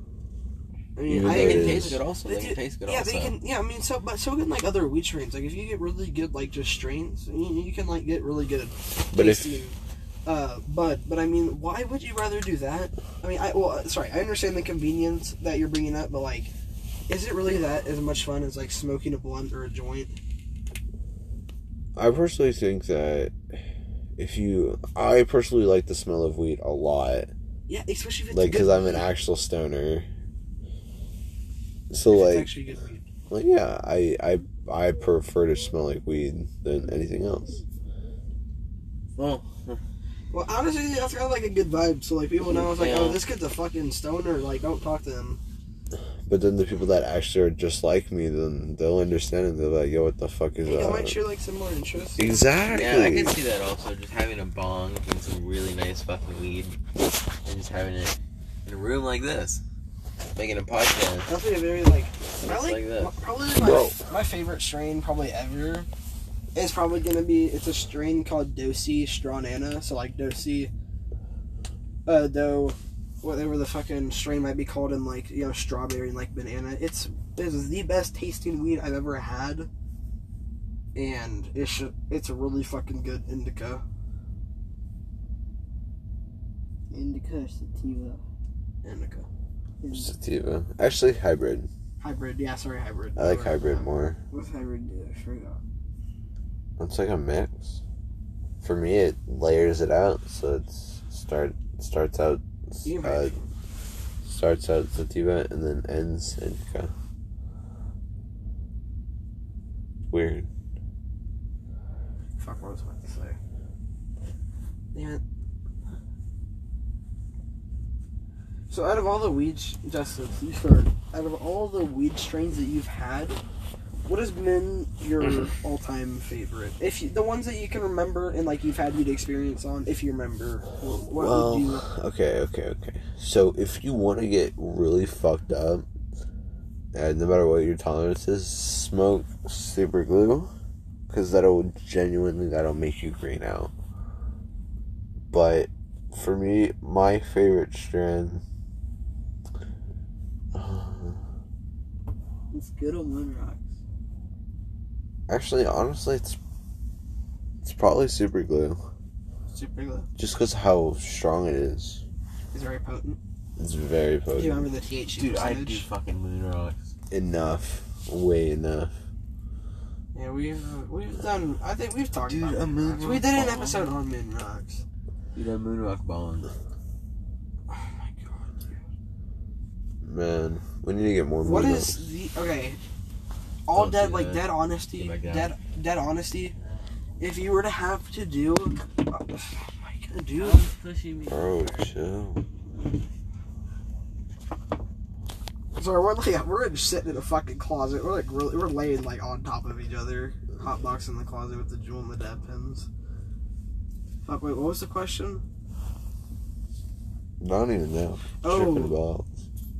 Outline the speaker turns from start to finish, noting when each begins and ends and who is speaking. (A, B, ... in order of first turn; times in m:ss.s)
0:01.0-0:16.5 A
0:01.0-0:02.0 B
0:01.2-0:03.4 C
0:09.1-0:09.6 B
0:17.1-0:20.1 A
0:22.0-0:23.4 B
0:24.2-0:27.3 B
0:27.7-0:29.1 A
0:28.3-0:30.1 B
0:31.9-0:32.5 B
0:32.0-0:33.1 A
0:33.3-0:37.6 B
0:39.2-0:39.8 C
0:40.3-0:45.4 A
0:42.4-0:43.2 C
0:46.2-0:51.2 B
0:50.6-0:52.4 A
0:52.2-0:53.4 B
0:52.7-0:56.8 C
0:57.4-0:59.6 C
1:00.3-1:01.4 C
1:01.2-1:05.9 A
1:02.4-1:03.1 C
1:03.5-1:04.0 B
1:06.5-1:10.7 A
1:12.0-1:19.7 A
1:20.9-1:23.8 A
1:26.9-1:28.2 D
1:28.8-1:29.3 A
1:29.8-1:30.1 D
1:29.9-1:31.7 B
1:32.0-1:33.8 A
1:33.2-1:34.2 B
1:34.3-1:35.6 D
1:36.8-1:37.8 B
1:38.6-1:43.3 B
1:42.8-1:43.4 A
1:44.2-1:46.9 B
1:50.1-1:50.5 B
1:52.4-1:53.4 A
1:54.9-1:55.2 A
1:58.7-2:03.4 A
2:04.0-2:11.8 A
2:11.1-2:15.8 B
2:16.9-2:20.5 B
2:21.1-2:23.7 B
2:25.3-2:28.4 B
2:30.5-2:31.2 B
2:32.5-2:33.6 D
2:35.3-2:36.4 B
2:37.6-2:38.8 B
2:39.5-2:40.1 C
2:40.2-2:42.0 B
2:42.5-2:43.2 A
2:43.6-2:44.7 B
2:44.3-2:45.9 A
2:45.1-2:46.9 C
2:47.1-2:48.9 B
2:50.1-2:54.8 A
2:52.2-2:54.0 C
2:55.3-2:56.5 C
2:57.7-2:58.8 A
3:00.0-3:02.0 B
3:01.4-3:02.8 A
3:03.7-3:06.5 A
3:03.7-3:05.5 C
3:07.2-3:10.7 A
3:10.3-3:11.9 D
3:11.2-3:12.4 B
3:15.8-3:22.9 A
3:24.2-3:25.4 A
3:27.4-3:29.3 B
3:28.4-3:28.9 A